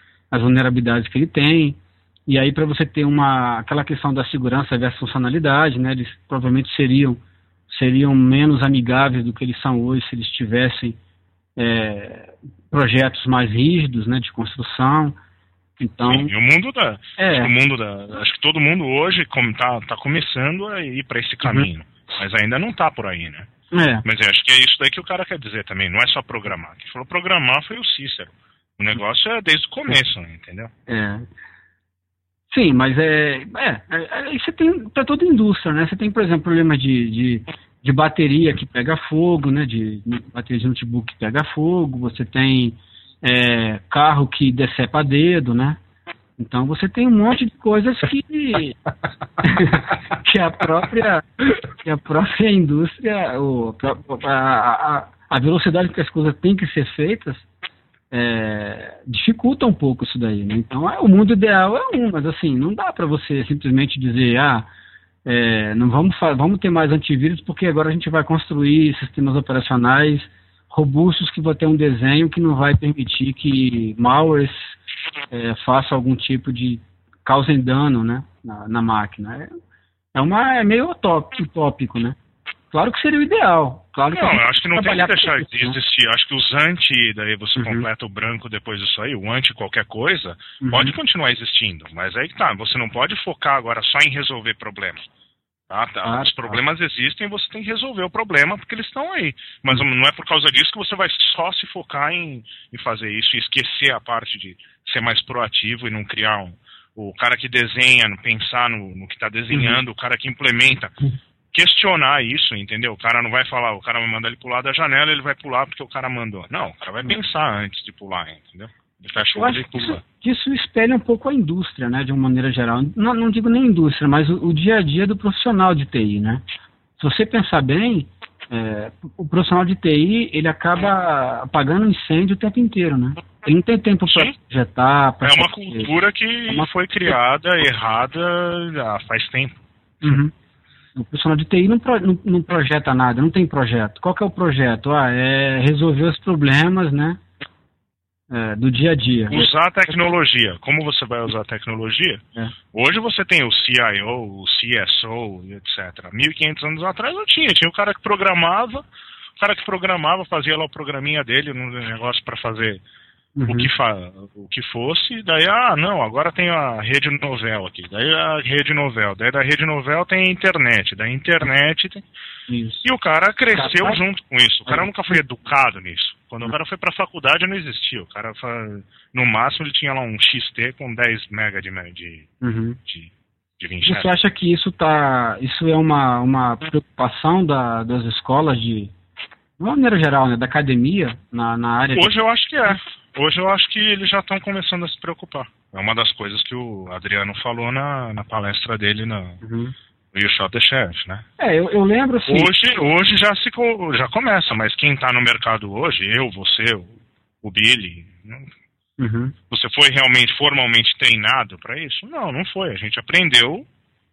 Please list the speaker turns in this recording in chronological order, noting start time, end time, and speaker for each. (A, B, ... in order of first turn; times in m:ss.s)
0:00.3-0:11.0 A
0:11.6-0:15.2 A
0:15.8-0:16.3 A
0:16.0-0:23.5 B
0:17.2-0:17.5 A
0:23.7-0:24.0 A
0:24.0-0:30.7 B
0:30.9-0:31.3 A
0:32.5-0:45.8 A
0:46.4-0:48.8 A
0:49.4-0:57.4 A
0:58.1-1:04.7 A
1:05.2-1:14.8 A
1:15.3-1:19.5 A
1:20.1-1:22.2 A
1:22.7-1:25.8 A
1:24.1-1:35.0 B
1:27.6-1:27.9 A
1:30.6-1:30.9 A
1:35.7-1:51.0 B
1:36.0-1:36.6 A
1:49.5-1:49.8 A
1:51.5-2:00.0 B
1:59.3-2:06.4 A
2:07.0-2:15.9 A
2:14.1-2:14.3 B
2:15.2-2:20.2 B
2:20.0-2:20.3 A
2:21.0-2:27.2 A
2:28.3-2:29.5 A
2:29.3-2:32.2 B
2:32.7-2:38.8 B
2:39.4-2:42.8 B
2:43.4-2:43.7 A
2:43.5-2:52.0 B
2:52.5-2:52.8 A
2:52.8-3:02.3 B
2:53.5-2:54.0 A
3:02.4-3:02.8 A
3:02.9-3:04.2 B
3:03.8-3:08.9 A
3:09.6-3:12.1 A
3:11.9-3:19.4 B
3:19.4-3:19.7 A
3:20.1-3:21.2 B
3:21.4-3:22.5 A
3:22.3-3:28.5 B
3:29.0-3:29.3 A
3:29.5-3:33.6 B